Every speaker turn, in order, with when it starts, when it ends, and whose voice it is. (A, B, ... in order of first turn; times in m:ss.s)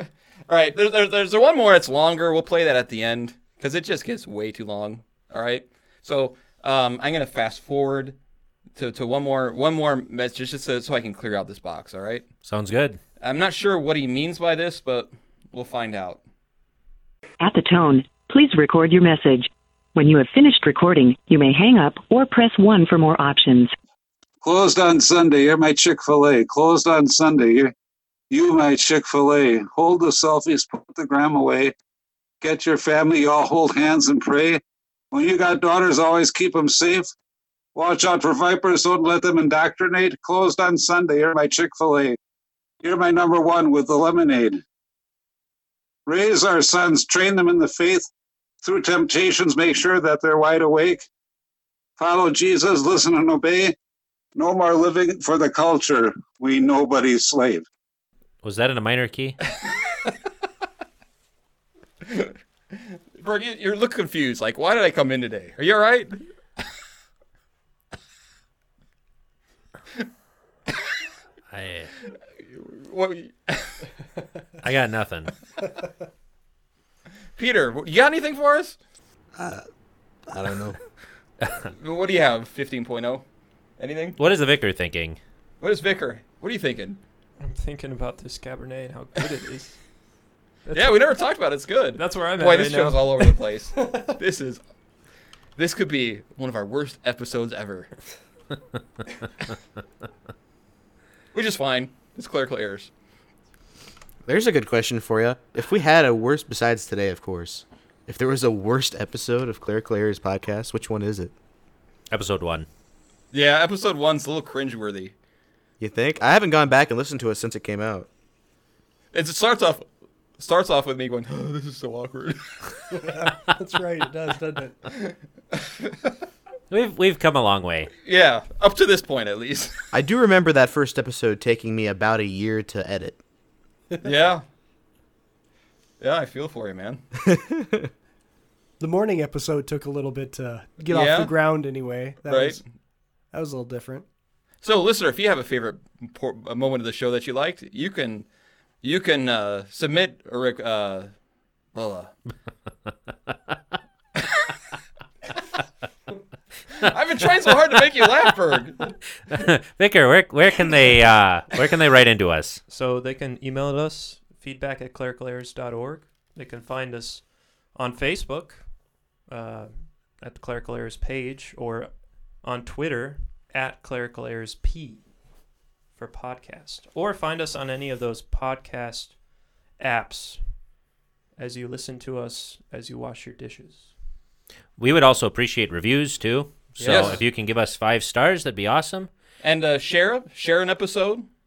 0:00.5-0:08.2 A
0:08.8-0:12.3 A
0:12.5-0:13.0 B
0:13.2-0:16.2 A
0:17.4-0:23.7 C
0:24.4-0:27.7 D
0:28.3-0:31.7 D
0:32.4-0:34.6 D
0:35.1-0:37.1 D
0:37.8-0:42.2 D
0:42.8-0:44.6 D
0:46.1-0:48.1 D
0:48.6-0:51.1 D
0:52.0-0:53.7 D
0:54.4-0:57.7 D
0:58.4-0:59.4 B
1:02.1-1:06.2 A
1:11.5-1:11.9 B
1:12.5-1:13.9 A
1:14.6-1:15.5 B
1:17.4-1:18.8 A
1:19.4-1:19.7 E
1:20.3-1:20.8 E
1:21.8-1:23.2 A
1:23.8-1:24.2 A
1:24.2-1:25.2 B
1:25.6-1:27.0 A
1:27.4-1:30.1 F
1:30.6-1:31.3 F
1:30.7-1:34.6 A
1:31.9-1:33.4 F
1:35.6-1:37.9 A
1:41.3-1:42.9 A
1:44.2-1:51.3 E
1:52.1-1:52.7 B
1:53.3-1:55.1 A
1:55.8-1:58.1 E
1:59.1-2:02.7 A
2:02.9-2:04.8 G
2:05.0-2:05.9 A
2:06.7-2:07.9 B
2:08.0-2:09.8 A
2:09.9-2:13.2 E
2:14.0-2:14.4 A
2:16.0-2:17.0 A
2:18.8-2:22.7 G
2:20.9-2:21.4 A
2:22.3-2:22.6 A
2:23.3-2:24.0 G
2:24.6-2:28.3 A
2:28.8-2:31.1 A
2:31.7-2:32.2 A
2:36.8-2:38.9 A
2:39.3-2:42.6 B
2:42.7-3:00.8 F
3:01.4-3:04.0 F
3:04.8-3:09.1 B
3:06.8-3:07.3 F
3:06.8-3:07.2 A
3:09.4-3:11.3 A